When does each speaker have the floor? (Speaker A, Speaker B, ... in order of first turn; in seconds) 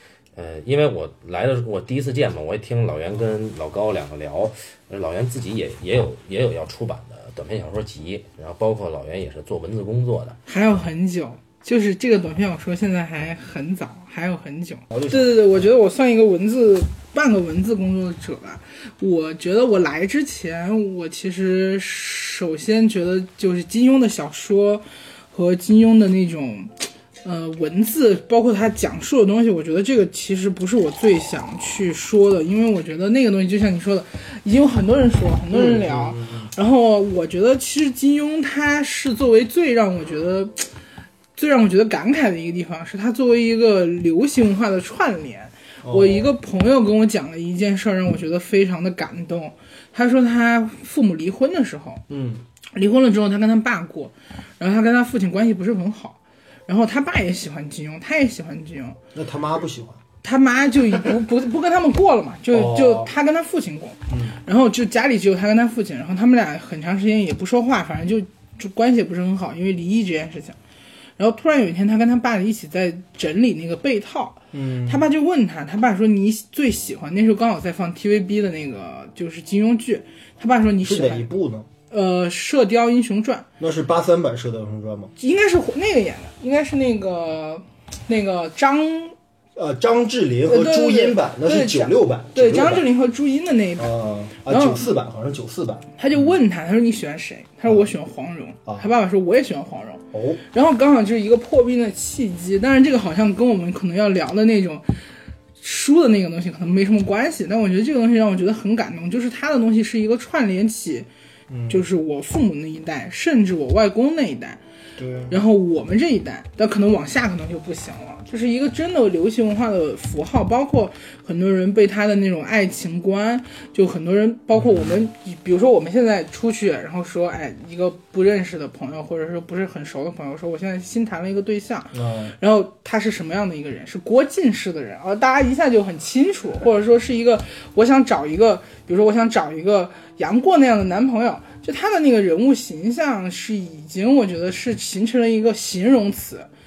Speaker A: 0.4-10.4
Speaker B: 10.5-40.7, 41.4-52.0, 52.8-59.0, 60.2-70.6, 71.2-81.3, 81.9-83.5, 85.2-89.2, 90.5-94.9, 96.0-104.9, 105.6-111.1, 111.7-114.6, 115.3-146.5
Speaker C: 14.9-15.7, 35.5-36.5, 45.8-46.3, 52.1-52.4, 59.1-60.0, 62.5-63.1, 64.1-64.4, 74.5-75.1, 80.8-81.7, 83.6-85.1, 89.6-92.9, 93.8-96.4, 100.1-100.4, 111.5-111.8, 115.0-115.4, 124.5-125.0, 131.9-132.3